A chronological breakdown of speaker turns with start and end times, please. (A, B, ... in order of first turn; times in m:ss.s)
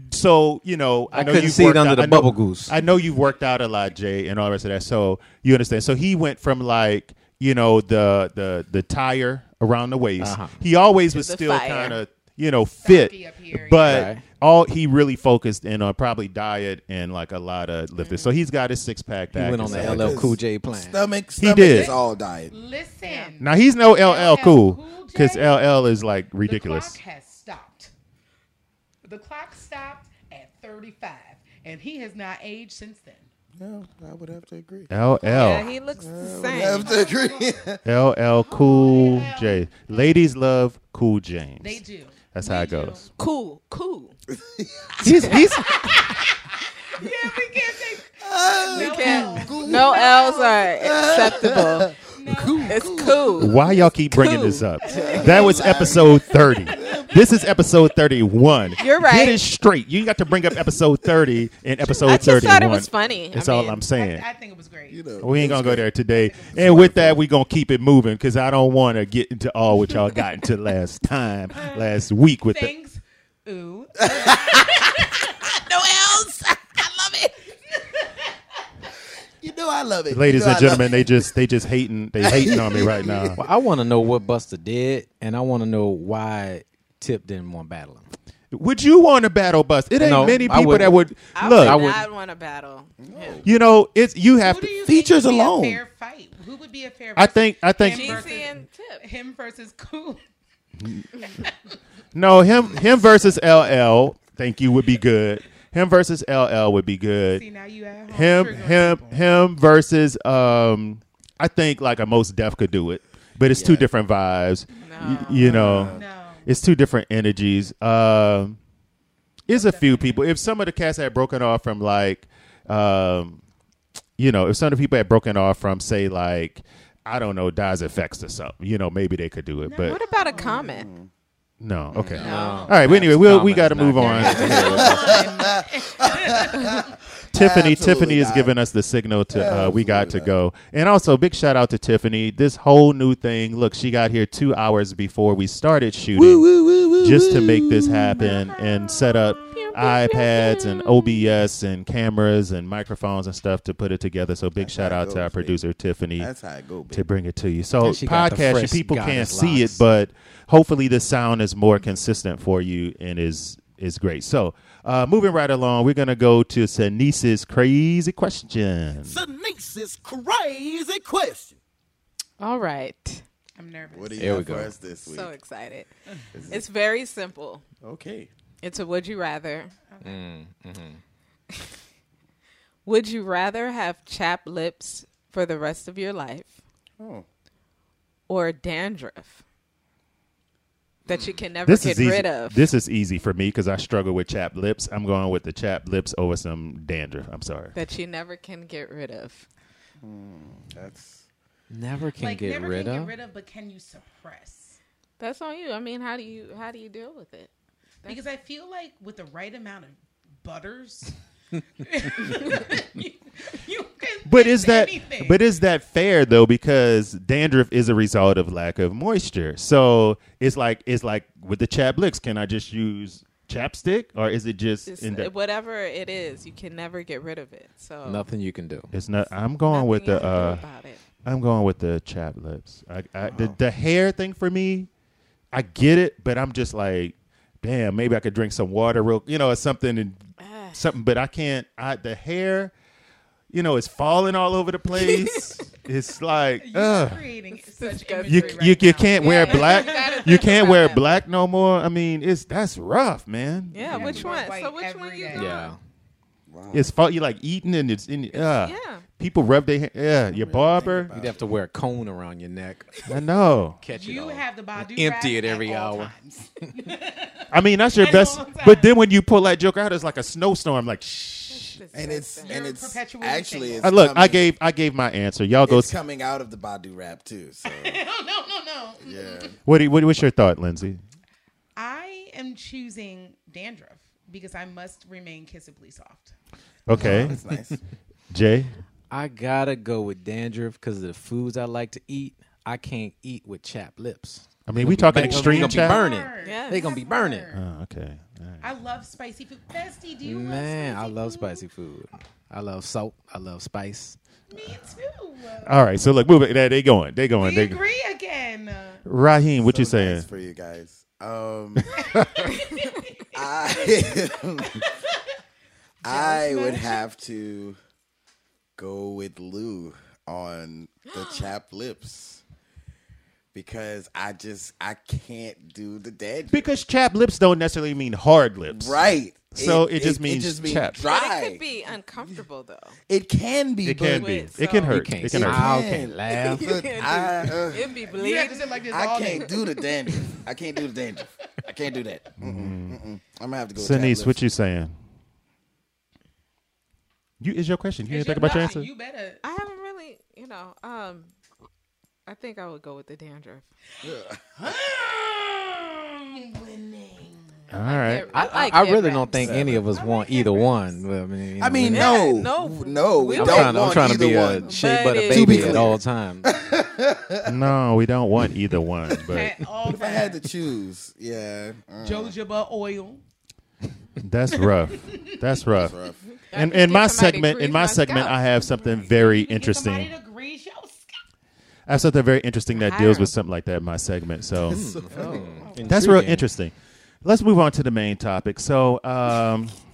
0:00.1-0:20.3 A
0:01.1-0:02.7 B
0:10.2-0:10.6 B
0:11.1-0:12.0 C
0:12.8-0:14.1 D
0:13.8-0:14.2 B
0:18.0-0:18.4 C
0:19.3-0:21.0 B
0:19.7-0:22.5 E
0:21.4-0:21.9 A
0:21.7-0:25.7 D
0:23.0-0:23.3 C
0:23.4-0:27.0 A
0:26.4-0:27.9 D
0:29.0-0:33.3 D
0:33.6-0:34.9 E
0:34.9-0:35.7 A
0:35.2-0:36.9 C
0:36.0-0:37.8 E
0:36.5-0:37.6 D
0:37.8-0:41.8 A
0:38.4-0:40.1 D
0:41.6-0:43.1 D
0:42.3-0:43.0 A
0:43.2-0:44.1 C
0:44.3-0:45.4 E
0:45.0-0:46.0 A
0:45.6-0:50.6 D
0:48.2-0:53.9 E
0:48.7-0:51.9 C
0:52.1-0:53.3 D
0:52.7-0:53.6 C
0:53.4-1:04.2 A
0:54.1-0:55.4 C
0:54.8-0:57.2 D
0:54.8-0:57.3 E
0:58.8-0:59.4 C
1:01.8-1:02.4 D
1:02.0-1:03.8 C
1:03.9-1:05.0 D
1:04.9-1:05.9 E
1:05.2-1:12.7 A
1:06.1-1:06.8 D
1:06.5-1:07.2 E
1:11.5-1:11.9 D
1:12.5-1:15.5 D
1:14.1-1:17.3 E
1:17.7-1:18.2 D
1:19.4-1:21.3 E
1:20.1-1:23.4 A
1:22.2-1:23.4 E
1:23.3-1:28.0 B
1:28.5-1:31.8 A
1:30.0-1:31.0 B
1:31.3-1:33.4 C
1:31.5-1:32.0 B
1:33.0-1:33.5 E
1:33.4-1:34.7 A
1:34.4-1:40.2 D
1:34.8-1:35.8 E
1:37.2-1:38.3 A
1:37.8-1:39.0 C
1:40.8-1:41.1 A
1:41.3-1:41.7 D
1:42.1-1:47.4 A
1:47.3-1:49.3 D
1:48.1-1:58.6 A
1:53.5-1:53.9 E
1:54.8-1:55.6 C
1:54.8-1:56.5 D
1:55.3-1:56.0 E
1:59.5-2:03.4 A
1:59.5-2:00.2 D
2:04.2-2:10.0 A
2:09.6-2:10.7 D
2:09.8-2:10.9 C
2:10.3-2:11.1 E
2:11.6-2:14.9 A
2:11.9-2:12.2 E
2:12.1-2:15.2 B
2:12.2-2:12.8 D
2:12.2-2:12.7 C
2:14.0-2:16.9 D
2:14.2-2:14.7 C
2:14.4-2:18.5 E
2:17.3-2:26.4 A
2:19.3-2:20.3 E
2:26.1-2:29.3 E
2:27.0-2:36.3 A
2:29.5-2:31.3 C
2:34.6-2:35.6 E
2:36.2-2:37.0 E
2:36.9-2:49.2 A
2:37.8-2:39.8 B
2:49.0-2:51.6 E
2:52.4-2:53.2 C
2:53.6-2:54.5 D
2:53.9-2:55.3 E
2:54.2-2:54.7 B
2:55.0-2:55.9 C
2:56.3-2:56.6 E
2:56.5-2:57.6 C
2:57.8-2:58.3 E
2:58.6-2:59.7 C
2:59.9-3:00.2 D
3:00.0-3:01.0 B
3:02.8-3:06.6 C
3:07.0-3:07.2 E
3:08.3-3:09.4 C
3:11.0-3:12.7 C
3:11.6-3:17.7 A
3:17.7-3:19.4 C
3:20.0-3:21.3 E
3:21.7-3:23.1 B
3:22.2-3:24.8 D
3:25.2-3:27.5 C
3:28.0-3:31.2 D
3:31.8-3:35.4 D
3:34.2-3:45.3 A
3:44.9-3:48.2 C
3:48.0-3:48.9 B
3:48.9-3:50.6 A
3:49.7-3:51.0 C
3:51.2-3:54.9 A
3:53.2-3:53.6 E
3:55.5-4:00.2 A
4:00.4-4:00.8 C
4:00.7-4:02.7 A
4:03.5-4:07.2 A
4:04.9-4:05.4 C
4:06.6-4:10.5 D
4:07.6-4:11.2 C
4:08.2-4:14.2 A
4:13.7-4:15.7 C
4:13.8-4:15.7 D
4:13.9-4:14.2 E
4:15.3-4:15.8 B
4:16.5-4:16.9 E
4:16.7-4:21.1 A
4:18.3-4:19.0 C
4:20.3-4:21.5 E
4:21.1-4:23.1 B
4:23.1-4:23.8 A
4:23.8-4:26.1 B
4:23.9-4:28.9 D
4:27.5-4:31.8 A
4:31.5-4:32.6 C
4:31.9-4:34.4 E
4:32.4-4:33.9 D
4:33.8-4:35.9 A
4:35.6-4:38.0 E
4:37.6-4:39.6 D
4:39.0-4:39.6 E
4:39.6-4:41.0 A
4:41.8-4:46.3 D
4:46.9-4:47.4 A
4:46.9-4:47.8 E
4:47.0-4:47.4 B
4:48.3-4:48.7 A
4:49.1-4:57.5 B
4:54.7-4:56.0 A
4:55.1-4:57.6 D
4:56.4-4:56.9 C
4:57.5-4:58.6 A
4:58.6-5:01.6 D
5:00.2-5:04.2 B
5:04.5-5:05.8 D
5:05.6-5:07.8 A
5:07.4-5:09.0 D
5:09.0-5:10.2 A
5:09.6-5:12.0 E
5:11.9-5:15.2 D
5:12.2-5:12.4 A
5:13.3-5:14.8 E
5:16.0-5:17.0 D
5:16.0-5:17.8 E
5:18.8-5:22.4 E
5:21.1-5:21.5 C
5:23.5-5:26.7 E
5:26.5-5:29.0 A
5:28.7-5:31.6 E
5:29.5-5:31.0 A
5:31.0-5:33.0 C
5:33.1-5:34.4 E
5:33.8-5:35.9 A
5:34.1-5:35.0 C
5:34.8-5:36.7 B
5:35.3-5:37.9 E
5:36.3-5:38.8 C
5:38.0-5:39.6 D
5:38.9-5:44.4 E
5:42.4-5:43.0 A
5:43.8-5:44.9 A
5:47.4-5:48.9 A
5:48.1-5:49.4 D
5:49.4-5:51.3 C
5:52.2-5:53.7 C
5:54.0-5:54.5 E
5:54.6-5:57.7 D
5:57.7-5:58.3 A
5:57.8-5:59.7 C
5:58.3-6:02.2 B
5:59.4-5:59.8 E
5:59.6-6:01.0 D
6:01.6-6:04.8 E
6:01.9-6:05.9 C
6:03.3-6:06.5 B
6:05.3-6:07.7 E
6:07.4-6:09.5 A
6:09.2-6:10.4 D
6:09.9-6:12.3 E
6:12.0-6:13.2 D
6:14.2-6:15.9 A
6:14.9-6:15.4 D
6:15.7-6:16.2 E
6:16.5-6:18.4 C
6:16.5-6:20.1 A
6:18.9-6:21.1 D
6:21.9-6:24.9 A
6:22.7-6:23.3 C
6:24.7-6:25.8 E
6:24.7-6:26.5 B
6:25.8-6:29.8 A